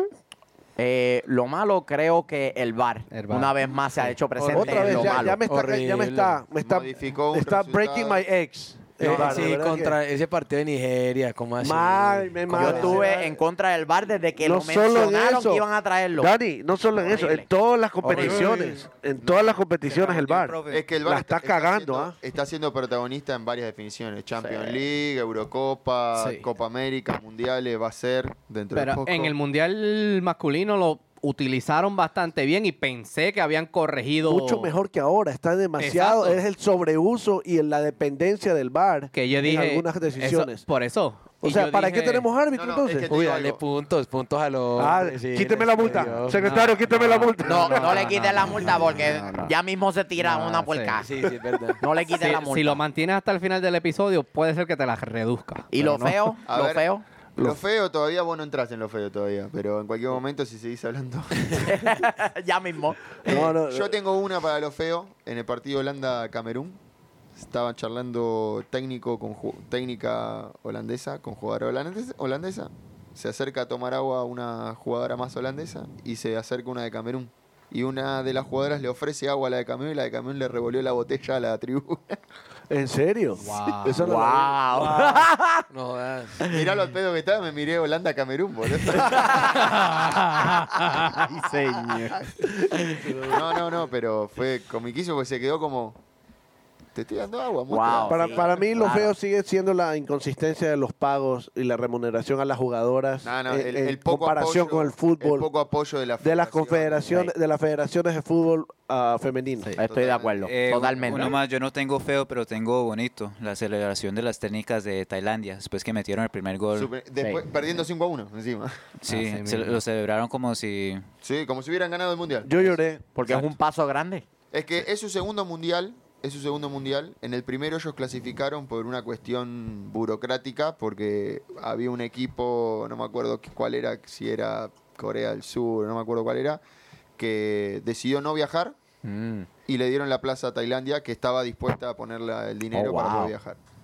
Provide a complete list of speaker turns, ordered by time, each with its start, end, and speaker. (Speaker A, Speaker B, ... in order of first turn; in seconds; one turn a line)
Speaker A: 0.8-5.4
Speaker B: 3.1-5.2
Speaker C: 4.5-10.0
Speaker D: 5.5-6.4
Speaker E: 6.6-8.2
Speaker D: 9.0-13.0
Speaker C: 11.6-13.4
Speaker A: 12.5-16.3
Speaker C: 14.4-15.7
Speaker C: 16.2-22.1
Speaker A: 17.0-17.5
Speaker D: 18.2-18.7
Speaker E: 19.2-19.6
Speaker F: 19.8-20.9
Speaker E: 20.7-29.3
Speaker B: 26.2-26.5
Speaker B: 28.7-34.7
Speaker C: 34.2-40.6
Speaker B: 35.8-36.4
Speaker B: 39.1-42.3
Speaker C: 41.4-43.3
Speaker E: 42.5-43.6
Speaker D: 43.1-46.5
Speaker C: 44.8-48.1
Speaker B: 46.4-49.5
Speaker A: 47.5-51.1
Speaker B: 50.2-51.0
Speaker D: 51.0-51.8
Speaker A: 51.8-52.8
Speaker B: 52.1-56.2
Speaker A: 55.7-57.0
Speaker E: 56.5-56.9
Speaker E: 57.4-61.7
Speaker A: 61.6-63.2
Speaker C: 63.2-63.9
Speaker E: 63.2-66.8
Speaker E: 67.4-82.2
Speaker C: 82.7-85.3
Speaker B: 83.4-84.0
Speaker A: 84.0-85.6
Speaker D: 85.7-86.4
Speaker E: 86.4-89.9
Speaker B: 89.4-92.3
Speaker A: 91.4-92.1
Speaker C: 92.9-93.4
Speaker E: 93.3-96.0
Speaker E: 96.9-98.7
Speaker A: 97.7-99.1
Speaker C: 98.1-105.5
Speaker E: 103.2-107.2
Speaker C: 106.2-109.7
Speaker A: 109.8-111.4
Speaker E: 109.8-111.3
Speaker F: 110.5-116.9
Speaker E: 116.7-118.8
Speaker F: 119.0-121.0
Speaker B: 119.1-119.8
Speaker E: 121.2-122.8
Speaker C: 122.5-123.0
Speaker A: 123.2-124.2
Speaker E: 124.5-136.6
Speaker E: 137.2-138.8
Speaker A: 139.0-139.5
Speaker E: 139.7-143.6
Speaker A: 142.7-143.3